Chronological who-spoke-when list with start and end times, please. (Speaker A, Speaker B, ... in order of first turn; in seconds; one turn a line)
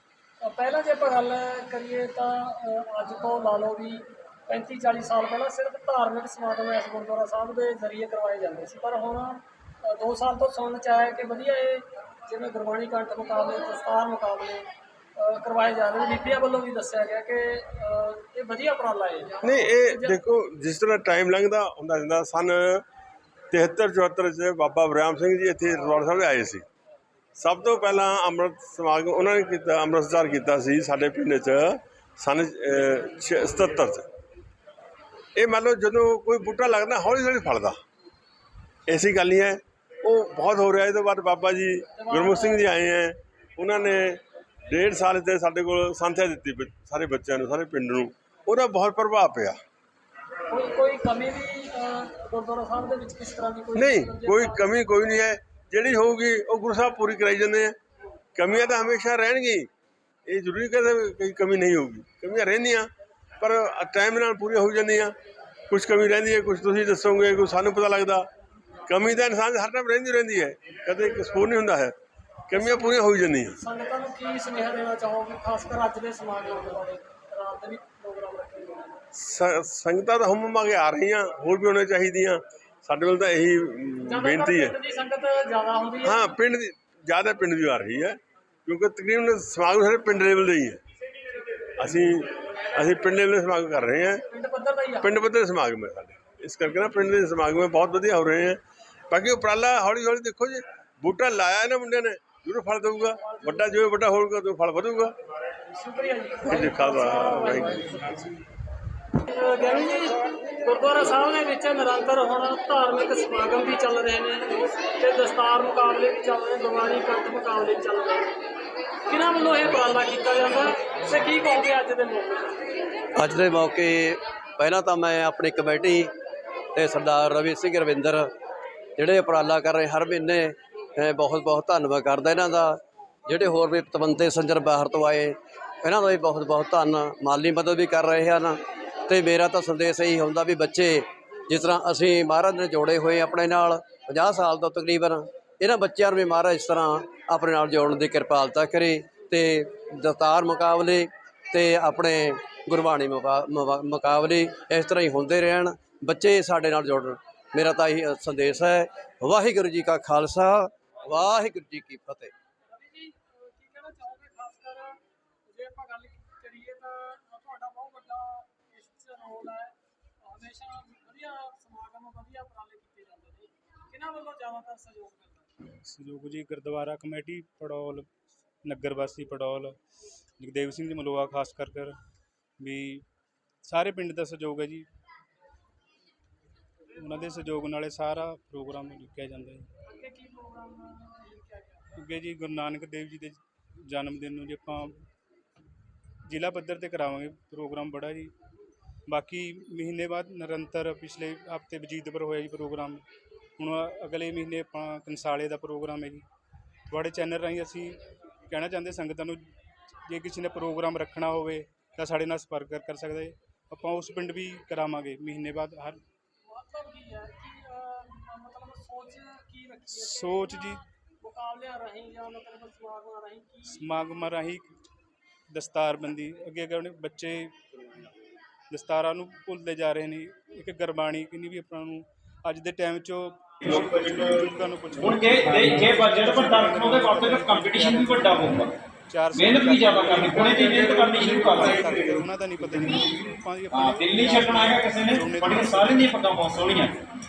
Speaker A: 0.4-14.7
Speaker A: 15.2-20.2
Speaker B: 19.4-22.8
Speaker B: 23.5-26.6
Speaker B: 27.4-34.1
Speaker B: 35.4-37.8
Speaker B: 38.9-49.6
Speaker A: 42.0-42.7
Speaker A: 50.5-54.6
Speaker B: 53.7-57.8
Speaker B: 58.4-59.7
Speaker B: 60.3-62.9
Speaker B: 63.4-65.1
Speaker B: 65.7-68.3
Speaker B: 68.9-71.9
Speaker B: 72.5-73.5
Speaker A: 72.5-73.0
Speaker A: 73.5-79.0
Speaker B: 79.2-84.7
Speaker A: 84.0-86.3
Speaker B: 86.0-90.8
Speaker B: 91.8-94.2
Speaker A: 94.3-95.2
Speaker B: 95.0-105.1
Speaker A: 103.2-103.8
Speaker A: 105.7-108.3
Speaker B: 106.4-108.0
Speaker A: 109.2-118.3
Speaker A: 119.1-122.6
Speaker C: 123.2-126.0
Speaker C: 126.8-128.2
Speaker C: 129.0-132.8
Speaker C: 133.3-135.3
Speaker C: 135.8-138.6
Speaker C: 139.1-151.1
Speaker C: 151.7-160.7
Speaker C: 161.3-162.3
Speaker A: 162.7-175.5
Speaker D: 175.8-178.1
Speaker D: 178.6-179.8
Speaker D: 180.4-181.9
Speaker D: 182.6-183.0
Speaker D: 183.6-184.9
Speaker D: 186.9-189.7
Speaker A: 189.8-192.0
Speaker D: 192.0-194.9
Speaker D: 196.3-198.3
Speaker D: 199.1-203.0
Speaker D: 203.6-206.2
Speaker D: 206.9-209.5
Speaker D: 210.1-216.0
Speaker A: 216.4-223.8
Speaker D: 219.9-220.8
Speaker D: 223.7-224.7
Speaker D: 225.5-227.5
Speaker D: 228.7-238.5
Speaker E: 233.6-233.9
Speaker E: 234.9-238.7
Speaker D: 239.1-246.1
Speaker E: 239.3-243.0
Speaker E: 243.7-246.9